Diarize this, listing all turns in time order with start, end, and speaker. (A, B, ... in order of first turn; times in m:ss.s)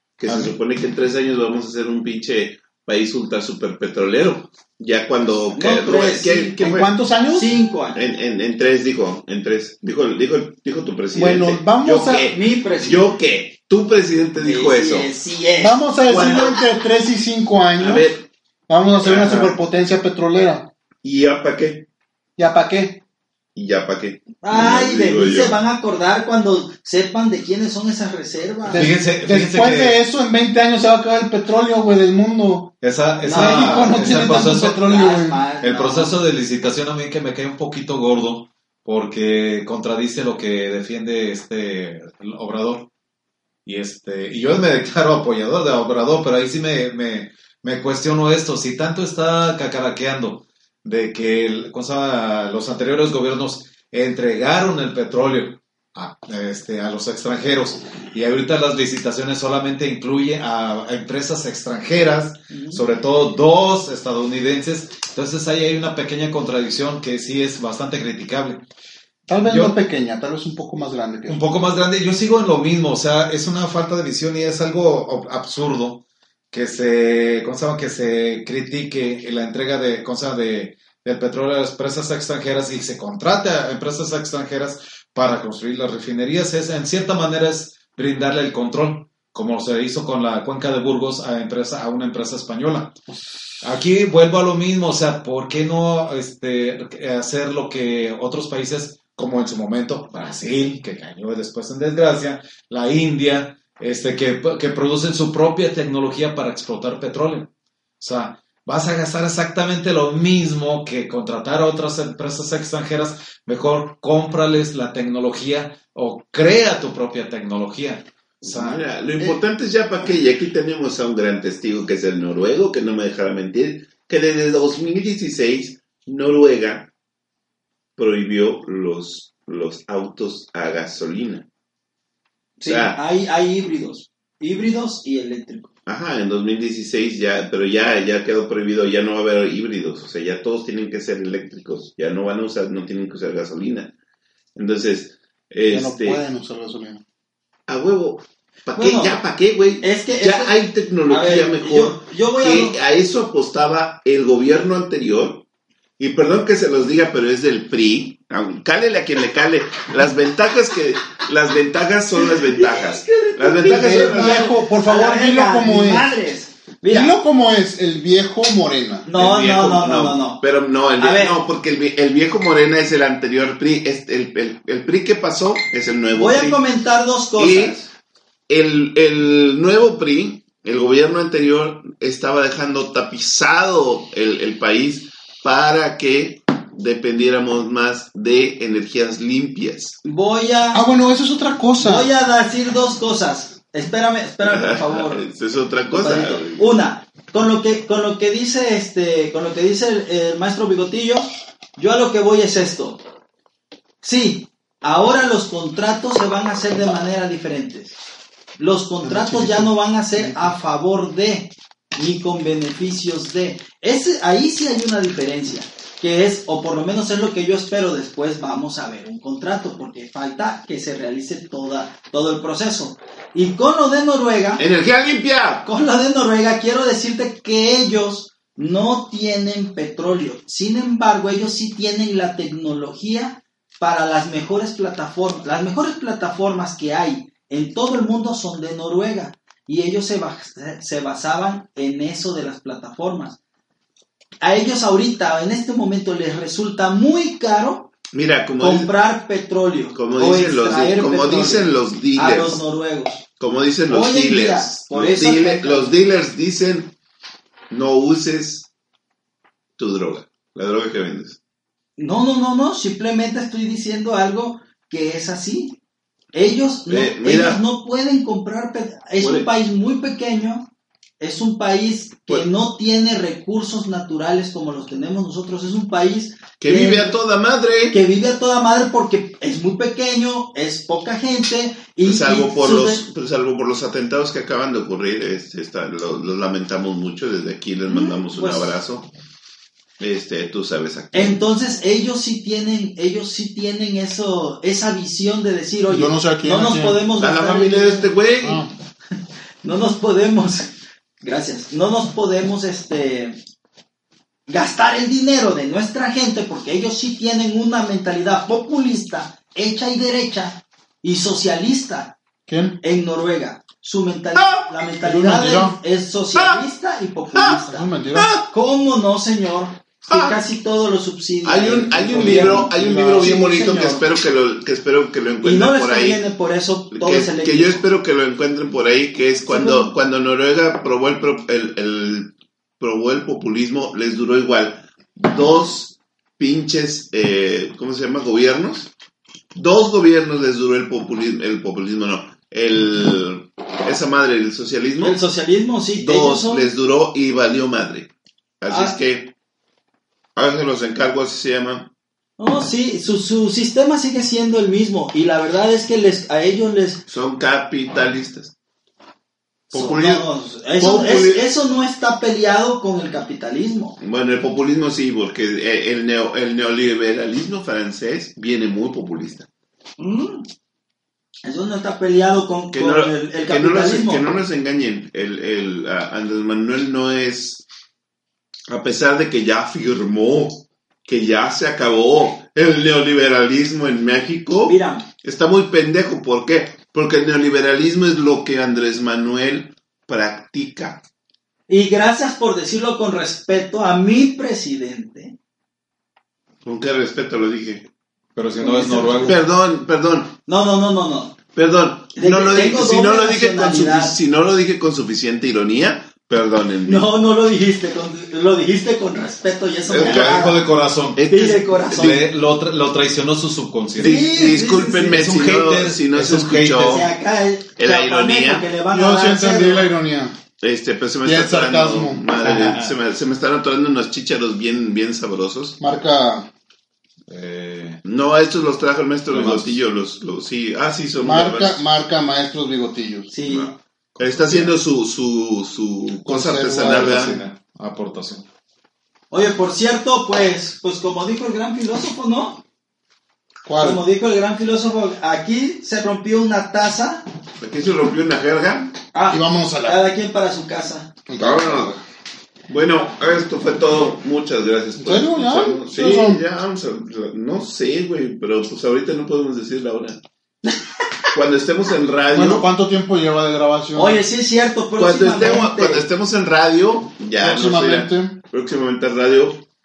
0:00.2-0:06.9 A
0:00.3-0:00.5 B
0:05.5-0:06.5 C
0:06.6-0:07.5 D
0:07.3-0:08.0 C
0:08.0-0:15.1 A
0:11.1-0:12.3 D
0:12.3-0:13.1 C
0:14.4-0:16.6 C
0:15.6-0:18.1 D
0:16.1-0:16.6 A
0:17.8-0:18.3 A
0:18.7-0:20.7 D
0:19.0-0:19.6 A
0:21.0-0:21.9 A
0:22.4-0:23.0 D
0:23.6-0:25.6 A
0:24.4-0:28.9 C
0:28.7-0:32.7 D
0:28.7-0:30.0 B
0:32.8-0:34.8 B
0:33.2-0:35.4 D
0:33.2-0:36.2 C
0:35.6-0:42.9 B
0:43.6-1:08.6 B
1:02.5-1:02.8 C
1:09.3-1:11.4 D
1:09.4-1:09.8 B
1:11.3-1:33.0 B
1:33.6-1:47.5 B
1:48.0-1:58.8 B
1:58.4-2:06.9 A
2:08.0-2:11.5 A
2:12.6-2:15.7 C
2:12.6-2:13.0 A
2:15.9-2:23.9 A
2:24.6-2:26.2 A
2:25.7-2:27.0 D
2:27.7-2:35.5 A
2:28.7-2:29.2 C
2:29.8-2:30.6 C
2:31.1-2:32.8 C
2:36.0-2:44.5 A
2:42.5-2:47.2 C
2:43.5-2:46.1 D
2:46.9-2:49.1 D
2:49.1-2:50.4 C
2:49.1-2:56.6 A
2:51.0-2:51.4 C
2:56.2-2:57.9 C
2:57.4-2:57.8 A
2:58.5-3:10.0 A
3:10.0-3:10.9 C
3:10.7-3:12.1 D
3:11.8-3:15.2 C
3:14.4-3:16.8 A
3:15.9-3:23.0 C
3:24.0-3:28.0 C
3:28.6-3:44.6 C
3:29.0-3:30.6 D
3:44.6-3:45.7 A
3:45.6-4:03.4 C
4:04.4-4:07.9 C
4:08.1-4:08.9 A
4:08.6-4:13.2 C
4:09.9-4:12.6 A
4:13.4-4:16.9 A
4:13.9-4:16.0 C
4:17.7-4:18.7 A
4:19.8-4:21.4 A
4:22.0-4:25.8 C
4:26.3-4:30.7 C
4:26.9-4:27.6 A
4:29.2-4:29.5 A
4:31.2-4:37.2 C
4:36.6-4:38.0 A
4:37.9-4:43.0 C
4:42.0-4:49.1 A
4:47.9-4:48.8 C
4:50.0-4:51.4 A
4:51.1-4:58.1 C
4:55.9-4:57.0 D
4:57.2-4:58.7 A
4:58.4-4:58.7 D
4:59.6-5:03.4 C
5:04.5-5:12.2 C
5:12.5-5:12.8 D
5:12.8-5:17.9 C
5:14.4-5:14.7 A
5:15.0-5:15.8 D
5:16.4-5:16.6 A
5:17.7-5:18.4 D
5:18.1-5:18.5 A
5:18.5-5:24.1 C
5:20.1-5:20.4 A
5:21.4-5:26.2 A
5:22.0-5:23.4 D
5:25.4-5:27.8 C
5:26.9-5:38.9 A
5:29.5-5:29.9 C
5:39.6-5:45.2 A
5:45.0-5:46.7 C
5:46.0-5:49.3 A
5:48.7-5:49.0 C
5:50.4-5:51.9 A
5:52.4-5:57.0 C
5:57.1-5:58.6 A
5:59.7-6:04.0 C
5:59.7-6:00.3 A
6:00.8-6:01.5 A
6:04.0-6:09.5 A
6:10.0-6:10.5 C
6:11.4-6:14.2 C
6:12.7-6:17.7 A
6:18.7-6:31.0 A
6:24.7-6:25.1 C
6:31.7-6:35.4 C
6:36.6-6:37.9 A
6:38.4-6:39.4 B
6:38.6-6:39.4 C
6:39.2-6:40.3 A
6:40.5-6:41.4 C
6:41.5-6:47.1 A
6:42.2-6:44.2 C
6:46.9-6:50.6 C
6:49.9-6:52.3 A
6:50.0-6:51.3 B
6:51.3-6:52.2 C
6:51.9-6:54.3 B
6:54.0-6:55.2 C
6:54.0-6:57.1 A
6:55.1-6:57.1 B
6:56.8-6:59.9 C
6:57.8-6:58.7 A
6:58.9-7:00.4 D
7:00.6-7:05.8 A
7:01.2-7:02.3 D
7:02.4-7:03.0 B
7:05.8-7:06.5 D
7:07.3-7:08.0 B
7:08.0-7:11.8 A
7:09.3-7:09.8 B
7:11.2-7:13.3 D
7:13.3-7:13.8 C
7:13.4-7:17.4 A
7:14.2-7:14.8 B
7:16.3-7:17.3 D
7:16.8-7:18.4 B
7:19.3-7:22.6 C
7:23.6-7:24.0 D
7:23.8-7:27.3 C
7:27.6-7:29.0 A
7:29.1-7:31.1 C
7:29.3-7:30.0 D
7:31.3-7:32.0 D
7:31.4-7:32.0 A
7:32.7-7:40.7 A
7:35.0-7:36.4 D
7:41.3-7:42.7 A
7:42.3-7:44.2 D
7:44.0-7:46.1 C
7:45.0-7:49.6 A
7:47.4-7:48.4 D